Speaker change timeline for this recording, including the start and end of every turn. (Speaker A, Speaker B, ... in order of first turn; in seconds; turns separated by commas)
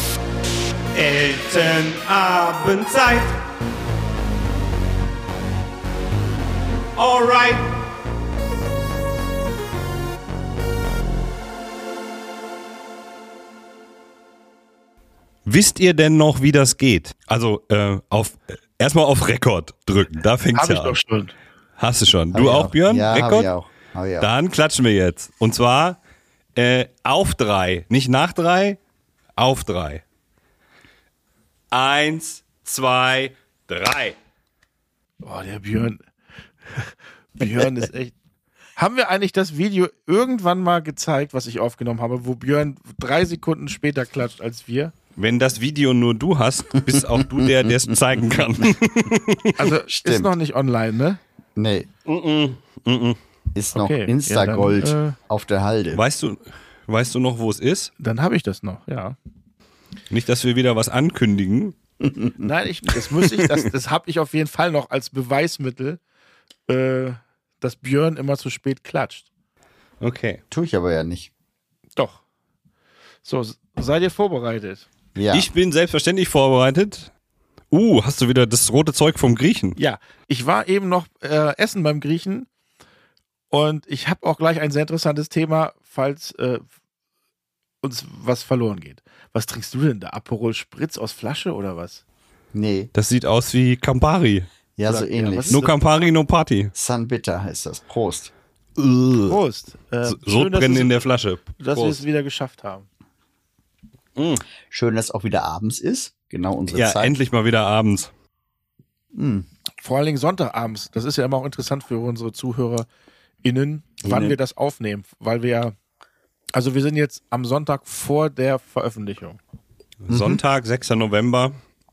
Speaker A: 0.9-3.4, Speaker A: 7.0-7.8, Speaker A: 15.4-21.0, Speaker B: 20.5-21.3, Speaker A: 21.8-23.5, Speaker C: 22.3-24.3, Speaker A: 24.2-26.0, Speaker A: 26.6-28.8, Speaker A: 29.4-30.0, Speaker A: 31.7-34.1, Speaker B: 35.2-36.0, Speaker B: 36.7-38.1, Speaker B: 38.8-44.9, Speaker A: 45.1-49.7, Speaker C: 46.9-47.7, Speaker B: 49.6-51.2, Speaker C: 49.9-50.3, Speaker C: 51.5-51.9, Speaker A: 52.0-53.2, Speaker C: 53.5-56.0, Speaker B: 53.7-55.1, Speaker A: 55.9-57.9, Speaker B: 58.0-59.1, Speaker A: 60.1-61.7, Speaker C: 62.0-62.5, Speaker B: 62.4-66.0, Speaker B: 66.7-69.3, Speaker A: 70.0-70.4, Speaker C: 70.5-71.3, Speaker B: 72.0-72.2, Speaker B: 73.2-74.9, Speaker C: 75.2-75.5, Speaker A: 75.3-77.1, Speaker A: 77.7-79.8, Speaker B: 79.8-82.5, Speaker B: 83.5-86.7, Speaker B: 87.8-92.0, Speaker C: 92.5-92.9, Speaker A: 92.9-94.5, Speaker C: 94.8-95.6, Speaker B: 94.8-95.7, Speaker A: 95.5-96.7, Speaker C: 96.7-98.3, Speaker A: 98.8-99.4, Speaker B: 99.3-101.0, Speaker A: 100.1-102.0, Speaker B: 101.6-102.9, Speaker A: 104.2-104.4, Speaker C: 104.7-107.1, Speaker A: 106.7-108.1, Speaker C: 109.1-109.5, Speaker B: 109.8-112.9, Speaker B: 113.4-115.7, Speaker C: 114.0-114.4, Speaker B: 116.5-119.4, Speaker A: 120.0-121.5, Speaker C: 120.1-120.4